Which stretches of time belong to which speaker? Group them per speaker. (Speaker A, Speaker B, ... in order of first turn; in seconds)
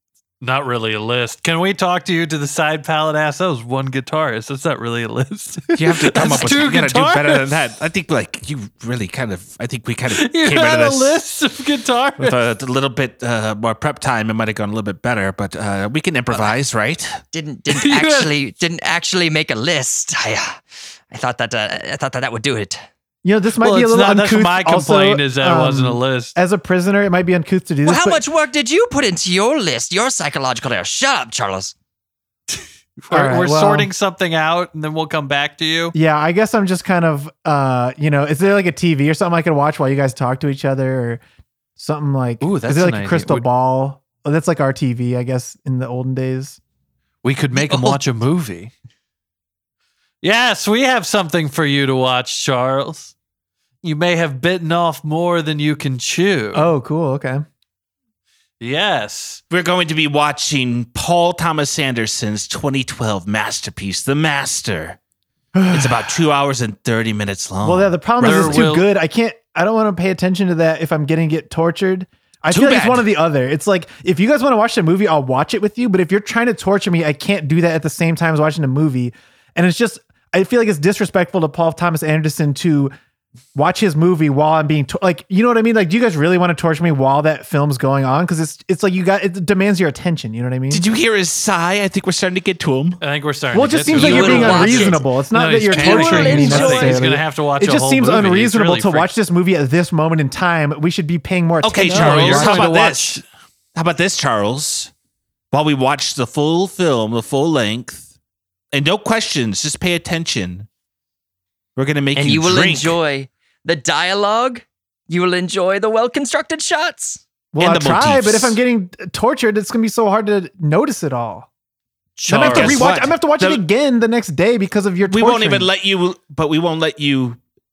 Speaker A: 0.4-7.5, 10.1-12.4, 17.7-18.3, 23.6-26.3, 32.5-35.9, 42.4-43.5, 47.2-48.7, 50.2-53.1, 53.8-56.7, 58.6-59.4, 68.2-68.8, 93.0-99.1, 101.9-103.2, 122.2-122.8
Speaker B: 5.8-11.2, 12.2-17.2, 59.5-65.0, 65.7-68.7, 72.5-73.1, 90.7-93.0, 94.0-94.7, 101.6-103.2, 103.8-104.9, 105.5-108.1, 108.7-110.7, 111.8-113.0, 117.6-118.6, 122.4-123.7, 125.1-127.4
Speaker C: 17.3-22.8, 27.8-31.7, 94.0-97.0, 112.2-117.2
Speaker D: 23.2-28.2, 33.1-33.9, 36.0-41.2, 41.8-46.6, 47.5-48.0, 56.5-57.4, 65.5-66.2, 67.6-82.9, 83.5-90.8, 93.5-102.7, 117.5-121.5, 122.3-125.7